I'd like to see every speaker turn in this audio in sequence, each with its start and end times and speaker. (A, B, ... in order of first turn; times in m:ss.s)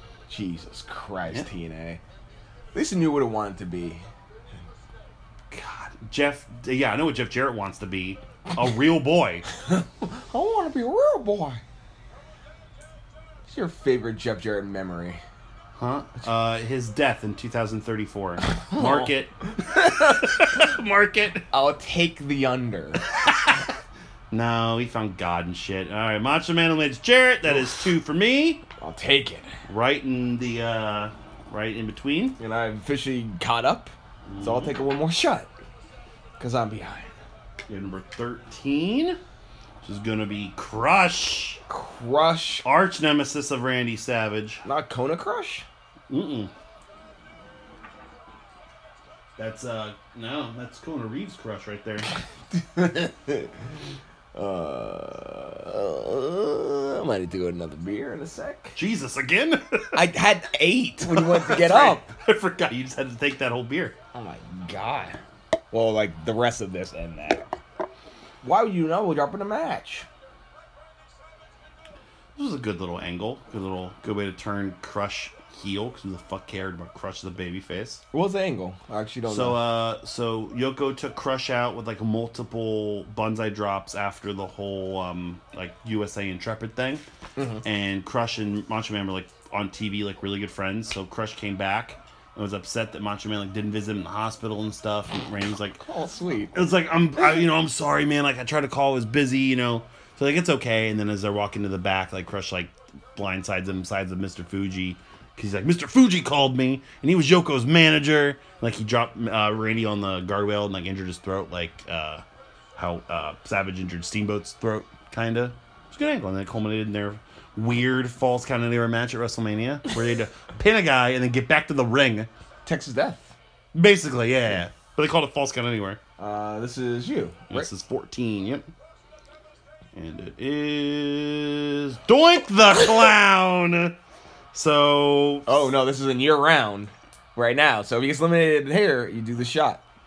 0:00.3-0:02.0 A
0:02.7-0:04.0 A
0:05.5-0:09.5 B
0:09.7-0:11.6 A
0:13.5-0:15.2 A
0:15.8-0:21.4 B
0:18.7-0:19.1 A
0:19.7-0:20.0 A
0:21.5-0:23.0 A
0:23.2-0:23.6 B
0:24.3-0:28.6 B
0:28.8-0:29.6 A
0:29.7-0:32.4 B
0:32.4-0:35.5 A
0:34.3-0:34.7 B
0:36.4-0:37.1 A
0:37.7-0:39.2 B
0:39.8-0:41.6 B
0:41.7-0:42.7 A
0:42.6-0:44.6 B
0:44.6-0:45.7 A
0:46.1-0:46.5 B
0:49.4-0:52.1 B
0:52.5-0:53.5 A
0:54.3-0:58.8 A
0:58.8-1:00.0 B
0:59.9-1:02.1 A
1:01.0-1:04.0 B
1:04.1-1:05.2 A
1:05.7-1:07.5 A
1:08.4-1:10.1 A
1:12.4-1:18.0 B
1:18.1-1:19.6 A
1:19.3-1:27.0 B
1:27.4-1:27.6 A
1:27.6-1:35.8 B
1:35.8-1:36.5 A
1:36.5-1:52.2 B
1:52.8-2:02.3 B
2:02.6-2:03.4 A
2:03.7-2:06.0 B
2:06.2-2:07.7 A
2:07.5-2:08.7 B
2:09.9-2:14.0 B
2:14.5-2:15.7 B
2:15.5-2:19.8 A